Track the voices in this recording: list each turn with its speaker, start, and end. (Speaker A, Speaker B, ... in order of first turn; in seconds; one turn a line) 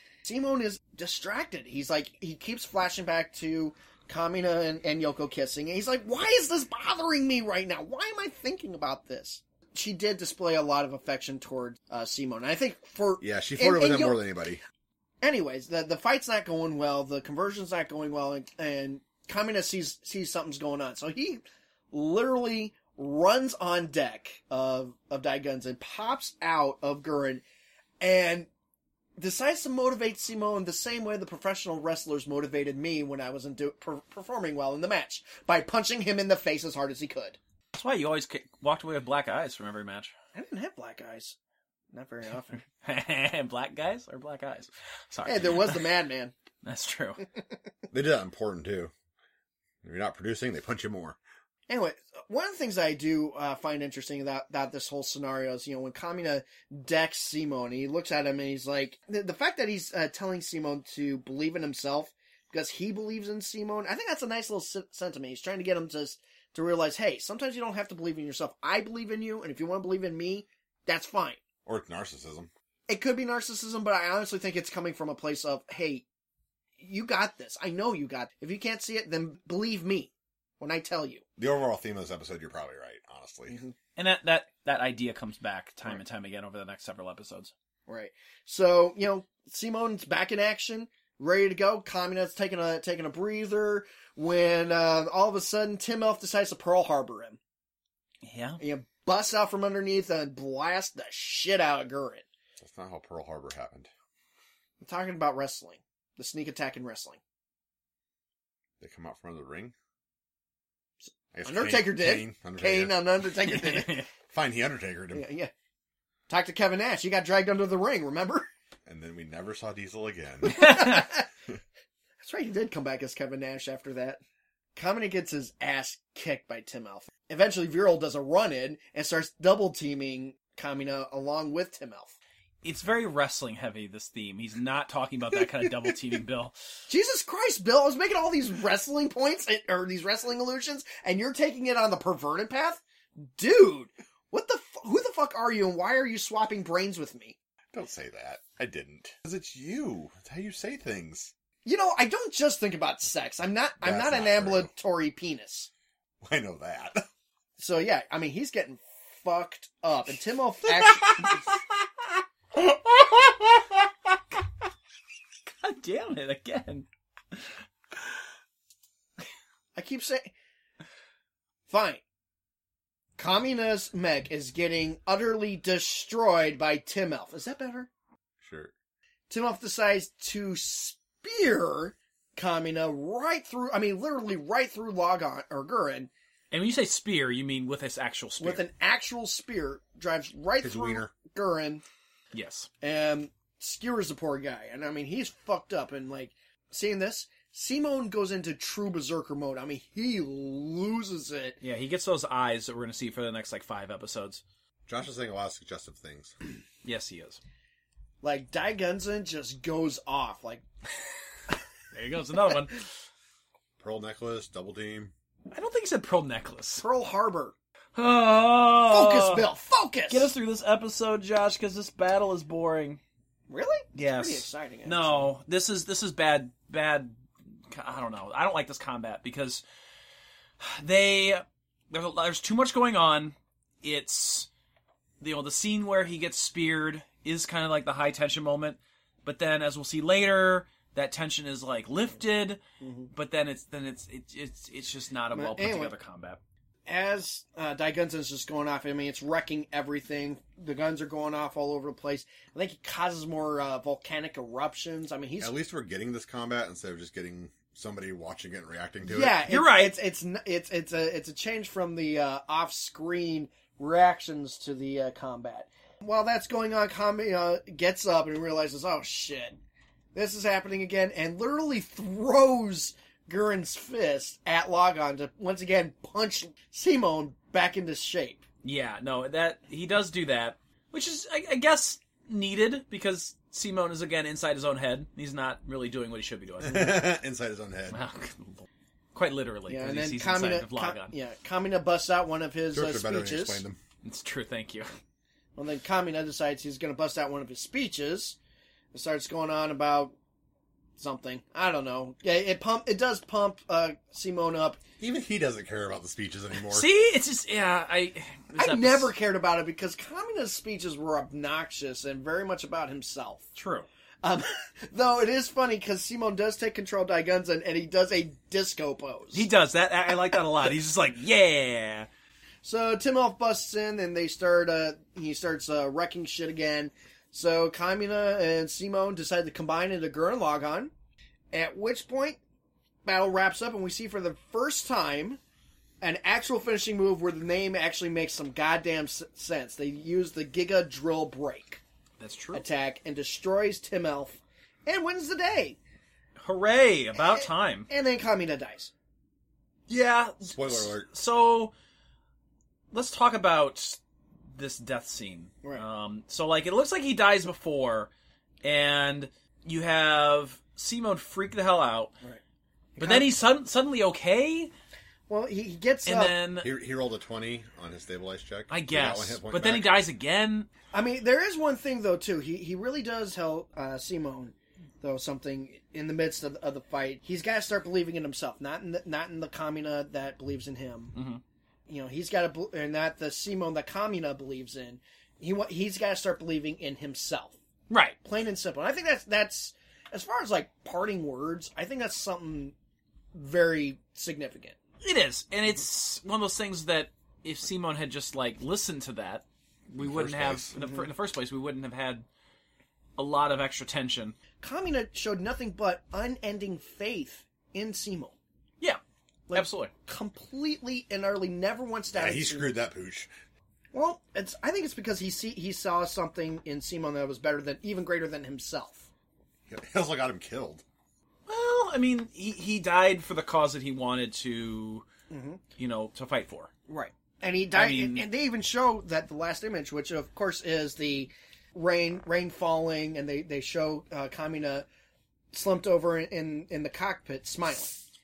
Speaker A: 0.2-14.2
Speaker B: 13.2-14.6
Speaker A: 15.2-27.4
Speaker A: 28.0-28.5
Speaker A: 29.2-37.4
Speaker C: 37.7-40.1
Speaker A: 40.3-41.4
Speaker A: 41.9-42.6
Speaker C: 42.6-45.9
Speaker A: 45.2-46.3
Speaker C: 46.6-47.2
Speaker B: 47.9-48.9
Speaker B: 49.8-51.2
Speaker A: 51.7-71.4
Speaker B: 71.6-72.5
Speaker A: 72.9-76.0
Speaker A: 76.8-81.2
Speaker B: 81.4-83.6
Speaker A: 83.5-83.7
Speaker C: 84.0-87.5
Speaker A: 87.9-97.4
Speaker C: 98.2-98.6
Speaker A: 98.6-102.2
Speaker B: 102.6-103.9
Speaker A: 104.8-107.2
Speaker B: 108.8-109.7
Speaker B: 111.3-113.0
Speaker A: 111.4-114.1
Speaker C: 113.5-114.1
Speaker B: 114.3-115.2
Speaker A: 115.1-115.5
Speaker A: 116.3-118.5
Speaker B: 118.8-120.8
Speaker A: 120.4-121.3
Speaker C: 120.6-121.0
Speaker A: 122.2-124.2
Speaker A: 124.8-132.1
Speaker C: 132.6-136.5
Speaker A: 136.9-147.3
Speaker B: 147.7-151.3
Speaker A: 151.6-155.7
Speaker B: 153.8-154.7
Speaker B: 156.2-157.1
Speaker A: 157.6-161.5
Speaker B: 160.7-161.4
Speaker C: 165.4-167.6
Speaker A: 169.7-170.3
Speaker A: 171.7-172.0
Speaker A: 173.2-177.9
Speaker B: 178.4-178.7
Speaker A: 179.3-186.1
Speaker C: 186.5-188.6
Speaker A: 188.4-191.8
Speaker B: 190.6-191.1
Speaker C: 192.3-192.7
Speaker A: 192.8-201.6
Speaker C: 201.6-204.4
Speaker B: 204.9-206.3
Speaker C: 206.8-207.4
Speaker A: 208.2-210.6
Speaker C: 211.9-212.8
Speaker B: 213.8-215.1
Speaker C: 215.5-216.8
Speaker A: 216.8-217.5
Speaker C: 217.9-219.5
Speaker A: 218.9-220.3
Speaker C: 220.1-223.0
Speaker A: 223.5-225.3
Speaker C: 223.9-229.6
Speaker C: 230.6-234.5
Speaker C: 235.2-242.6
Speaker A: 242.8-243.1
Speaker C: 243.1-246.4
Speaker A: 245.3-245.9
Speaker A: 246.8-255.5
Speaker B: 255.4-259.4
Speaker A: 259.0-269.6
Speaker C: 259.5-259.9
Speaker A: 270.1-278.4
Speaker C: 278.6-287.1
Speaker B: 286.6-288.0
Speaker C: 287.9-291.1
Speaker A: 289.7-293.6
Speaker B: 292.7-293.8
Speaker C: 294.0-294.9
Speaker A: 295.6-298.4
Speaker A: 298.9-300.1
Speaker A: 301.0-304.8
Speaker B: 305.0-306.9
Speaker C: 306.6-309.1
Speaker A: 308.5-313.4
Speaker C: 313.5-313.9
Speaker A: 314.2-319.5
Speaker C: 319.3-322.1
Speaker A: 322.6-330.9
Speaker A: 331.5-332.4
Speaker A: 333.0-335.4
Speaker A: 336.0-341.8
Speaker C: 342.2-342.6
Speaker A: 342.5-345.8
Speaker C: 346.4-347.9
Speaker A: 347.2-348.9
Speaker C: 349.9-351.7
Speaker B: 350.4-351.1
Speaker C: 352.9-354.0
Speaker C: 354.5-358.1
Speaker C: 358.6-362.1
Speaker A: 362.9-363.3
Speaker C: 363.0-364.7
Speaker A: 365.3-366.4
Speaker C: 366.1-366.7
Speaker B: 366.6-370.0
Speaker C: 368.7-370.7
Speaker A: 370.9-381.1
Speaker C: 381.1-381.4
Speaker A: 381.9-387.6
Speaker C: 387.9-388.2
Speaker A: 388.2-392.7
Speaker A: 393.3-394.8
Speaker C: 395.0-402.2
Speaker B: 400.0-400.8
Speaker A: 400.8-401.1
Speaker C: 403.2-404.4
Speaker A: 404.6-408.3
Speaker A: 409.5-412.7
Speaker C: 409.5-409.9
Speaker B: 412.1-413.3
Speaker A: 413.9-419.1
Speaker B: 419.7-420.8
Speaker C: 421.5-425.1
Speaker A: 425.3-425.6
Speaker C: 425.8-426.7
Speaker A: 426.9-434.9
Speaker C: 427.7-428.3
Speaker A: 435.5-437.9